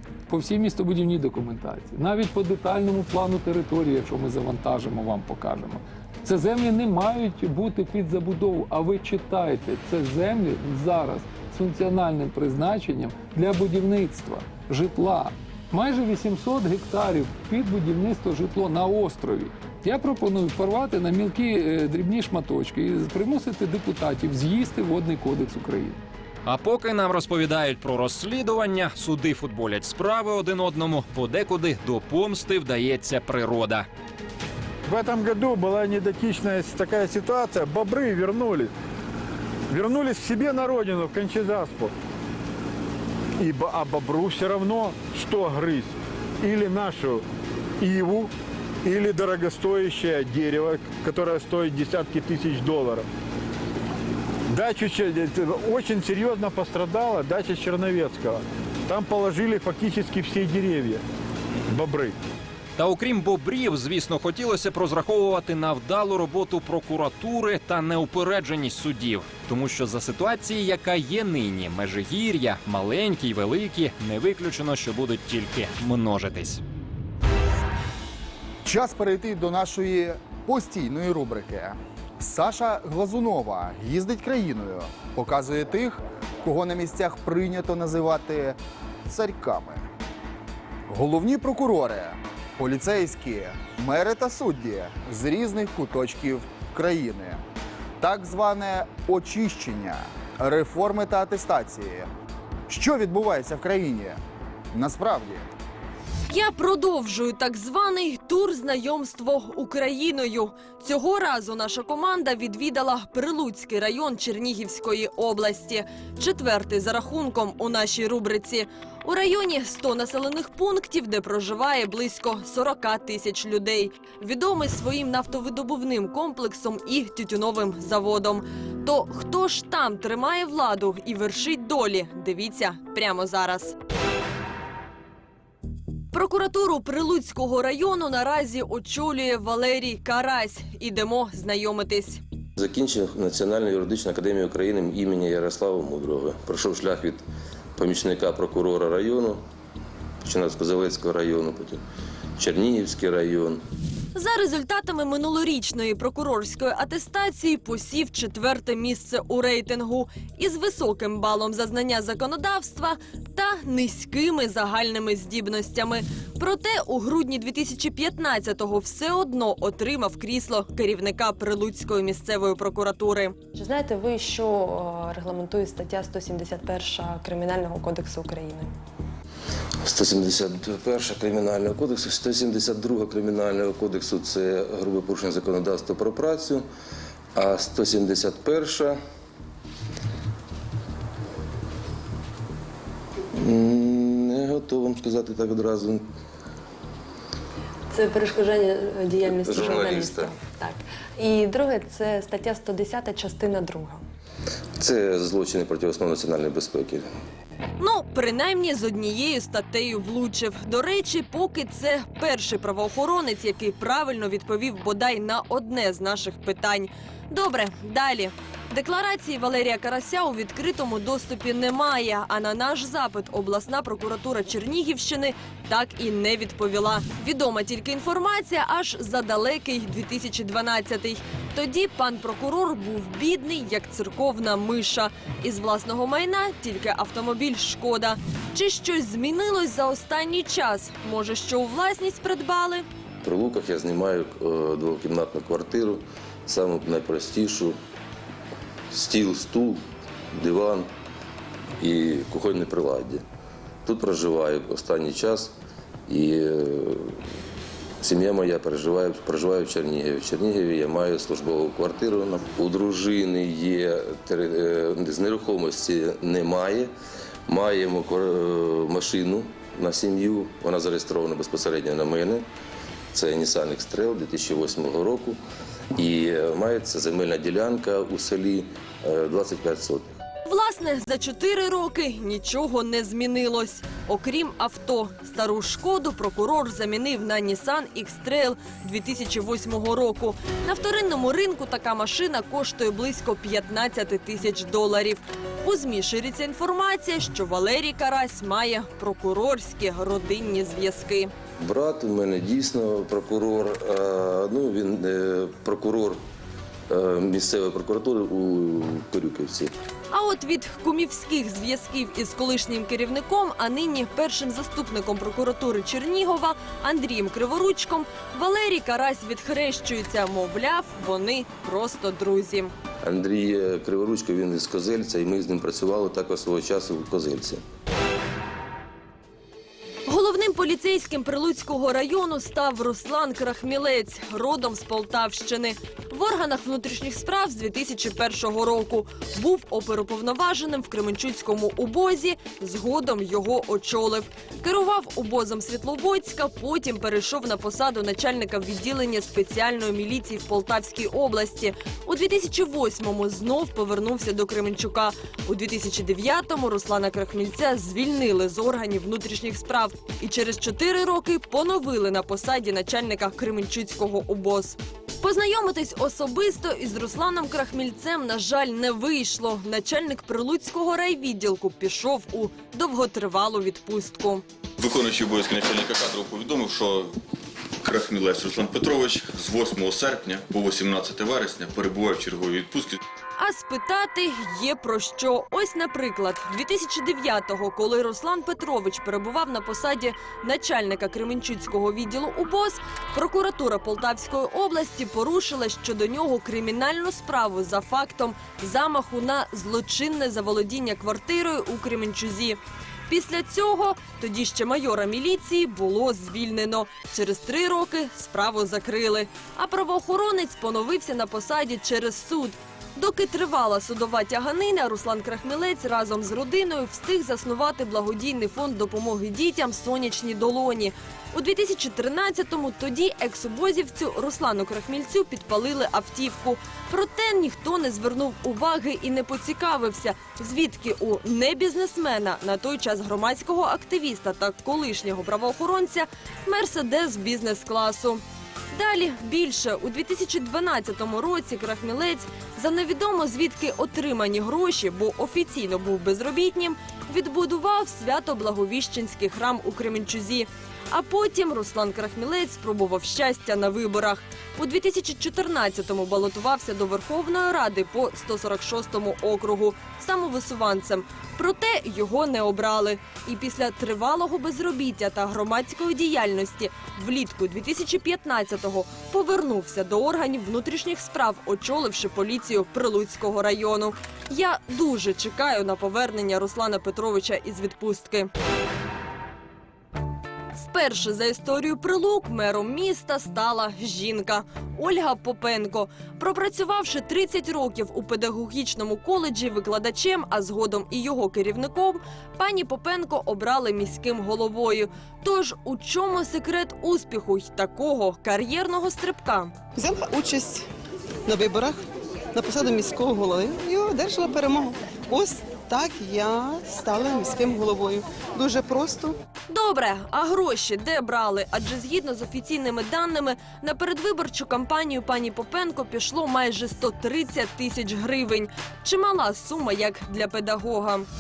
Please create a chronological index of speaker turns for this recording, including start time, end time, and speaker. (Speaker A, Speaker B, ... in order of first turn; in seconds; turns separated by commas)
Speaker A: 0.3-26.0, Speaker B: 26.4-33.9, Speaker C: 34.9-38.7, Speaker C: 39.7-41.9, Speaker C: 43.4-47.2, Speaker C: 47.8-48.3, Speaker C: 48.8-53.1, Speaker C: 54.5-61.0, Speaker C: 61.7-62.1, Speaker B: 62.8-76.6, Speaker D: 78.6-89.9, Speaker D: 90.9-97.4, Speaker D: 98.0-102.1, Speaker D: 102.7-104.2, Speaker D: 104.7-105.5, Speaker E: 106.3-133.8, Speaker E: 136.1-142.2, Speaker F: 142.6-147.2, Speaker F: 147.8-149.4, Speaker F: 150.2-151.8, Speaker F: 152.4-153.6, Speaker E: 154.1-173.4, Speaker G: 173.5-178.7, Speaker F: 179.8-186.7, Speaker F: 187.3-189.0, Speaker F: 193.3-196.0, Speaker G: 197.9-204.0, Speaker F: 199.3-200.3, Speaker F: 204.8-207.1, Speaker E: 207.8-242.9, Speaker F: 243.2-247.8, Speaker F: 248.9-249.8, Speaker F: 250.3-250.9, Speaker F: 251.8-253.2, Speaker F: 253.8-255.5, Speaker F: 256.1-257.2, Speaker F: 258.0-266.9, Speaker F: 267.5-272.4, Speaker F: 273.1-275.4, Speaker F: 275.9-280.1, Speaker E: 280.5-301.3, Speaker F: 301.6-306.2, Speaker F: 306.9-309.7, Speaker E: 310.1-322.7, Speaker F: 323.0-327.6, Speaker E: 330.1-374.4, Speaker H: 374.8-377.2, Speaker H: 377.8-383.0, Speaker E: 383.4-478.3, Speaker E: 480.6-499.5, Speaker I: 499.8-500.6, Speaker I: 501.3-501.8, Speaker I: 502.4-509.2, Speaker E: 509.5-521.1